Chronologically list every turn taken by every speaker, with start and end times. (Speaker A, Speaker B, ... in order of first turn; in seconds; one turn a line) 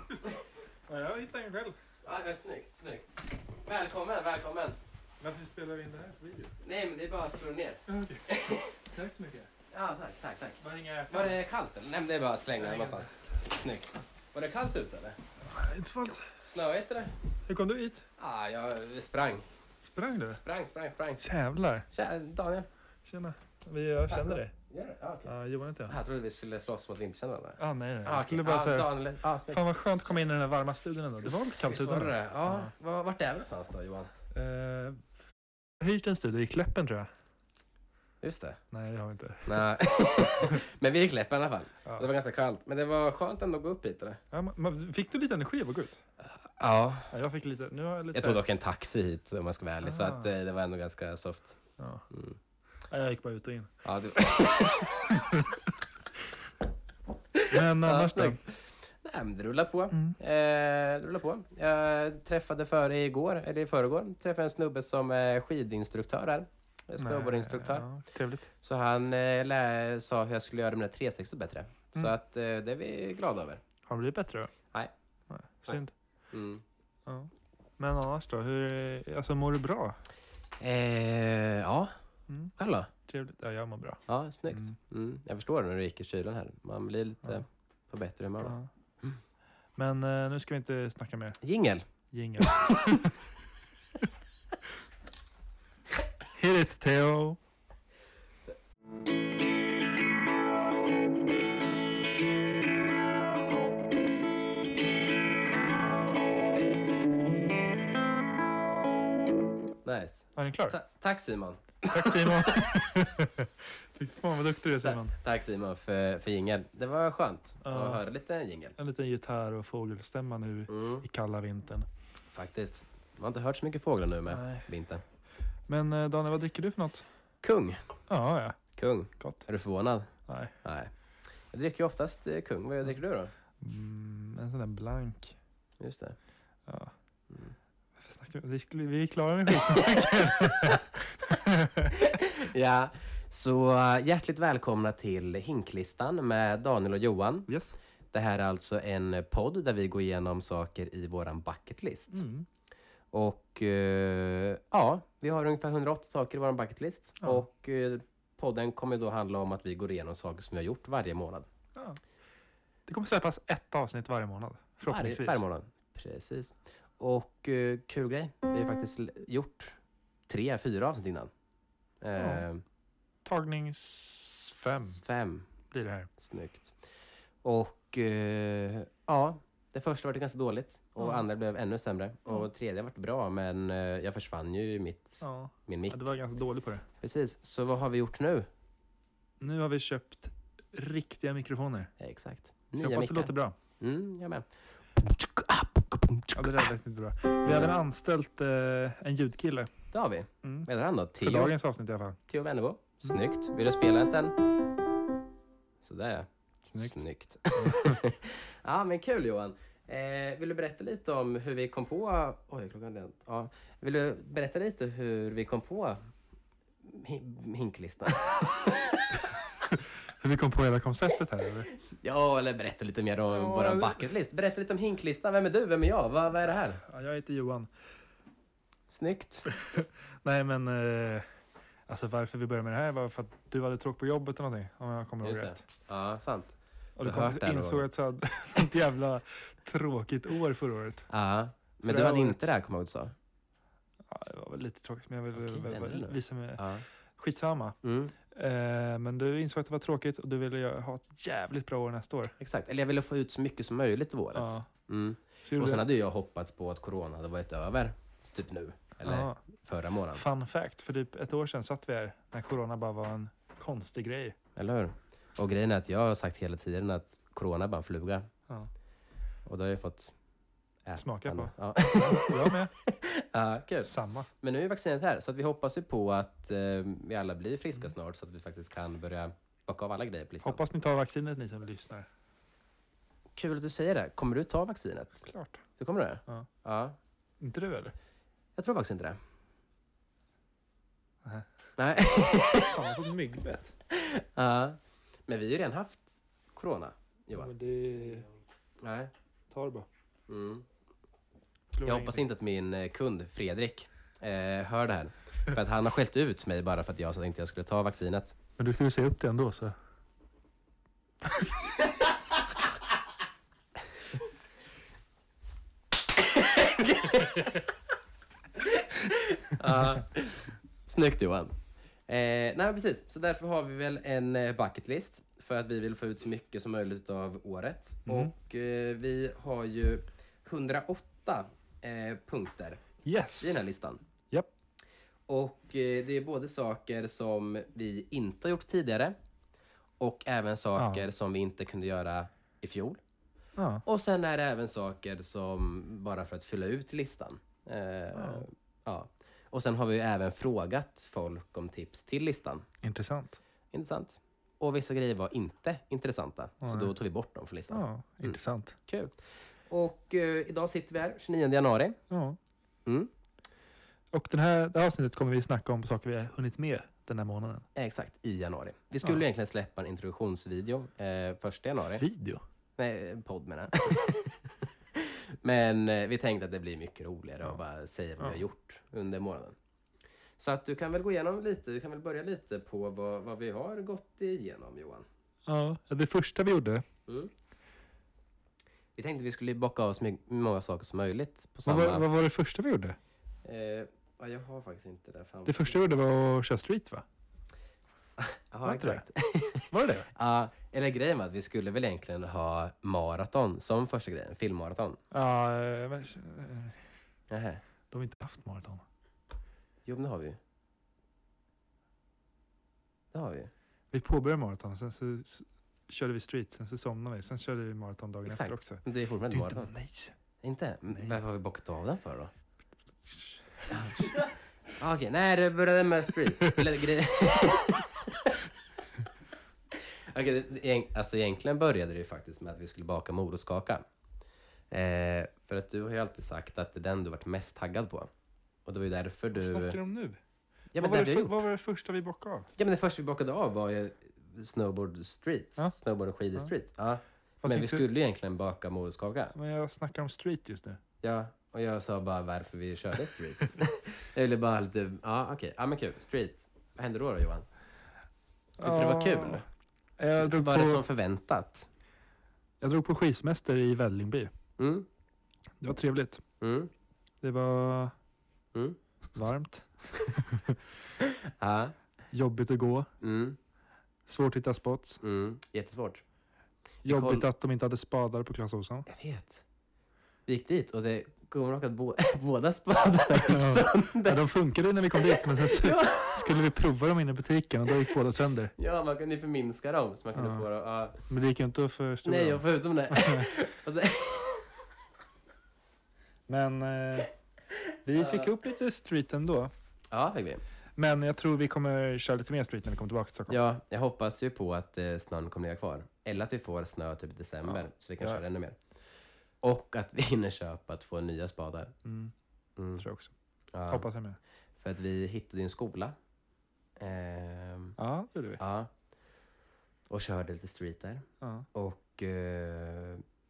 Speaker A: 0.9-1.8
Speaker B: 2.0-4.8
Speaker A: 5.2-6.5
Speaker B: 6.6-8.7
Speaker A: 7.9-9.5
Speaker B: 9.7-15.2
Speaker A: 10.6-11.3
Speaker A: 12.6-13.1
Speaker A: 15.5-16.3
Speaker B: 16.4-17.1
Speaker A: 17.5-18.1
Speaker B: 18.2-19.5
Speaker A: 19.8-20.4
Speaker B: 20.3-21.2
Speaker A: 21.2-21.9
Speaker B: 21.9-22.7
Speaker A: 23.0-24.5
Speaker B: 24.1-25.3
Speaker A: 25.2-26.0
Speaker B: 25.9-29.6
Speaker A: 27.6-28.9
Speaker A: 29.4-32.7
Speaker B: 31.2-34.1
Speaker A: 34.3-35.0
Speaker A: 35.8-37.1
Speaker B: 38.2-38.6
Speaker A: 38.7-39.7
Speaker B: 39.5-44.2
Speaker A: 44.3-46.0
Speaker B: 46.4-47.1
Speaker A: 47.1-48.4
Speaker B: 48.1-52.4
Speaker A: 49.8-50.3
Speaker A: 51.8-52.0
Speaker A: 52.9-54.4
Speaker B: 53.8-55.2
Speaker A: 54.9-55.6
Speaker B: 57.3-67.9
Speaker A: 57.5-58.4
Speaker A: 59.9-60.2
Speaker A: 67.0-68.5
Speaker B: 68.6-73.6
Speaker A: 73.8-74.5
Speaker A: 75.3-75.9
Speaker B: 76.3-76.6
Speaker A: 77.0-80.0
Speaker B: 80.6-81.9
Speaker A: 82.3-84.7
Speaker B: 82.6-82.9
Speaker B: 84.1-89.2
Speaker A: 88.4-88.7
Speaker A: 89.8-91.4
Speaker B: 91.4-91.8
Speaker A: 92.1-93.2
Speaker A: 96.3-97.4
Speaker B: 109.8-112.7
Speaker A: 110.3-110.8
Speaker A: 111.9-115.1
Speaker B: 114.8-118.7
Speaker A: 117.6-118.0
Speaker A: 118.8-121.9
Speaker B: 120.7-121.0
Speaker B: 122.3-125.0
Speaker A: 124.3-124.7
Speaker A: 125.7-127.0
Speaker B: 127.4-127.8
Speaker A: 128.1-128.6
Speaker B: 128.8-130.1
Speaker A: 129.2-129.4
Speaker A: 130.3-130.5
Speaker B: 130.6-130.9
Speaker B: 131.5-133.3
Speaker A: 133.6-135.3
Speaker B: 135.8-136.2
Speaker A: 136.7-136.9
Speaker A: 138.0-141.9
Speaker B: 139.7-140.8
Speaker B: 141.8-147.5
Speaker A: 147.5-147.8
Speaker B: 148.1-152.2
Speaker A: 152.1-152.5
Speaker B: 153.1-161.5
Speaker A: 162.9-165.4
Speaker B: 164.9-169.8
Speaker B: 170.3-171.3
Speaker B: 172.0-172.6
Speaker A: 172.2-172.4
Speaker A: 173.2-175.0
Speaker B: 174.9-175.5
Speaker A: 175.7-176.1
Speaker B: 176.2-176.8
Speaker B: 177.4-186.0
Speaker A: 181.0-181.2
Speaker A: 185.2-186.8
Speaker B: 187.0-188.5
Speaker A: 189.4-191.9
Speaker B: 192.0-196.7
Speaker A: 192.8-193.6
Speaker A: 196.3-199.7
Speaker B: 197.4-197.7
Speaker B: 199.9-201.5
Speaker A: 200.4-200.7
Speaker A: 201.2-202.2
Speaker B: 202.3-204.4
Speaker B: 205.8-216.0
Speaker A: 206.7-208.0
Speaker B: 216.8-219.0
Speaker A: 219.6-221.7
Speaker B: 221.8-226.8
Speaker A: 223.3-224.0
Speaker A: 226.8-227.7
Speaker B: 228.9-229.5
Speaker A: 229.5-231.2
Speaker A: 231.9-235.6
Speaker B: 235.2-237.8
Speaker A: 237.0-241.1
Speaker B: 241.1-243.1
Speaker A: 241.8-242.5
Speaker A: 244.1-246.6
Speaker B: 245.3-246.8
Speaker A: 247.2-252.3
Speaker B: 247.8-248.1
Speaker B: 252.4-260.2
Speaker A: 254.3-254.7
Speaker A: 255.4-255.8
Speaker A: 259.0-259.4
Speaker A: 260.1-264.4
Speaker B: 264.6-268.3
Speaker B: 269.4-270.1
Speaker B: 270.9-280.6
Speaker A: 271.0-272.7
Speaker A: 273.8-274.3
Speaker A: 280.4-282.1
Speaker B: 283.3-285.2
Speaker A: 285.2-285.6
Speaker B: 285.8-287.0
Speaker A: 287.4-287.9
Speaker B: 288.6-289.2
Speaker A: 291.2-291.5
Speaker B: 291.8-292.8
Speaker A: 292.6-293.7
Speaker B: 293.9-297.5
Speaker A: 297.3-298.3
Speaker B: 298.8-299.1
Speaker A: 299.5-299.9
Speaker B: 300.3-300.6
Speaker A: 301.7-302.2
Speaker B: 301.8-308.4
Speaker A: 308.6-309.7
Speaker B: 316.3-317.6
Speaker B: 318.6-321.5
Speaker B: 322.1-332.8
Speaker A: 328.1-328.3
Speaker A: 333.0-333.6
Speaker B: 333.4-334.0
Speaker B: 335.3-339.1
Speaker B: 340.0-343.0
Speaker A: 340.8-341.1
Speaker A: 343.6-343.8
Speaker B: 343.8-352.7
Speaker A: 348.1-348.4
Speaker A: 352.8-353.4
Speaker B: 353.7-359.1
Speaker A: 356.6-356.9
Speaker A: 357.7-358.8
Speaker B: 359.7-362.0
Speaker A: 362.1-362.4
Speaker B: 362.9-363.1
Speaker A: 364.1-367.6
Speaker B: 367.7-372.0
Speaker A: 372.0-372.4
Speaker B: 372.8-374.4
Speaker B: 374.9-379.6
Speaker B: 380.4-385.1
Speaker A: 385.4-386.8
Speaker B: 387.1-387.3
Speaker B: 388.9-392.1
Speaker A: 391.6-393.0
Speaker B: 393.4-395.8
Speaker A: 395.4-397.0
Speaker B: 398.2-405.0
Speaker A: 398.6-399.1
Speaker A: 399.7-400.1
Speaker A: 405.1-406.8
Speaker B: 407.3-407.6
Speaker A: 407.9-408.8
Speaker B: 409.9-410.4
Speaker B: 413.1-413.5
Speaker A: 413.9-420.1
Speaker B: 418.2-419.7
Speaker B: 420.4-422.3
Speaker A: 423.2-424.1
Speaker B: 423.7-424.2
Speaker B: 424.8-428.4
Speaker B: 429.7-433.8
Speaker B: 434.7-438.1
Speaker B: 438.6-439.8
Speaker A: 439.3-440.2
Speaker B: 440.7-441.4
Speaker A: 440.8-442.5
Speaker B: 442.6-449.3
Speaker A: 447.4-447.9
Speaker A: 449.3-450.8
Speaker B: 451.0-457.5
Speaker B: 458.6-459.4
Speaker A: 458.6-459.4
Speaker A: 460.0-460.8
Speaker B: 460.1-461.7
Speaker A: 462.6-464.3
Speaker B: 464.6-464.9
Speaker A: 465.6-466.2
Speaker B: 466.4-466.7
Speaker A: 467.2-467.9
Speaker A: 469.1-470.6
Speaker B: 471.0-471.7
Speaker A: 472.1-472.9
Speaker B: 473.0-473.4
Speaker A: 474.1-475.0
Speaker B: 475.0-476.0
Speaker A: 476.8-478.9
Speaker B: 476.9-477.3
Speaker B: 478.9-479.4
Speaker B: 480.3-484.2
Speaker A: 483.3-488.5
Speaker B: 485.0-486.4
Speaker B: 488.6-491.0
Speaker A: 490.1-490.4
Speaker A: 491.1-493.3
Speaker B: 492.0-494.5
Speaker A: 496.3-497.1
Speaker A: 497.8-499.5
Speaker B: 498.0-498.3
Speaker B: 499.9-500.4
Speaker A: 500.8-503.4
Speaker B: 503.3-508.6
Speaker A: 507.5-508.2
Speaker B: 509.4-511.7
Speaker A: 511.8-512.1
Speaker B: 512.6-512.9
Speaker A: 512.8-513.1
Speaker B: 513.5-513.9
Speaker A: 513.7-514.2
Speaker B: 514.6-515.9
Speaker B: 516.8-517.8
Speaker A: 517.8-518.4
Speaker B: 518.4-518.7
Speaker B: 519.9-523.0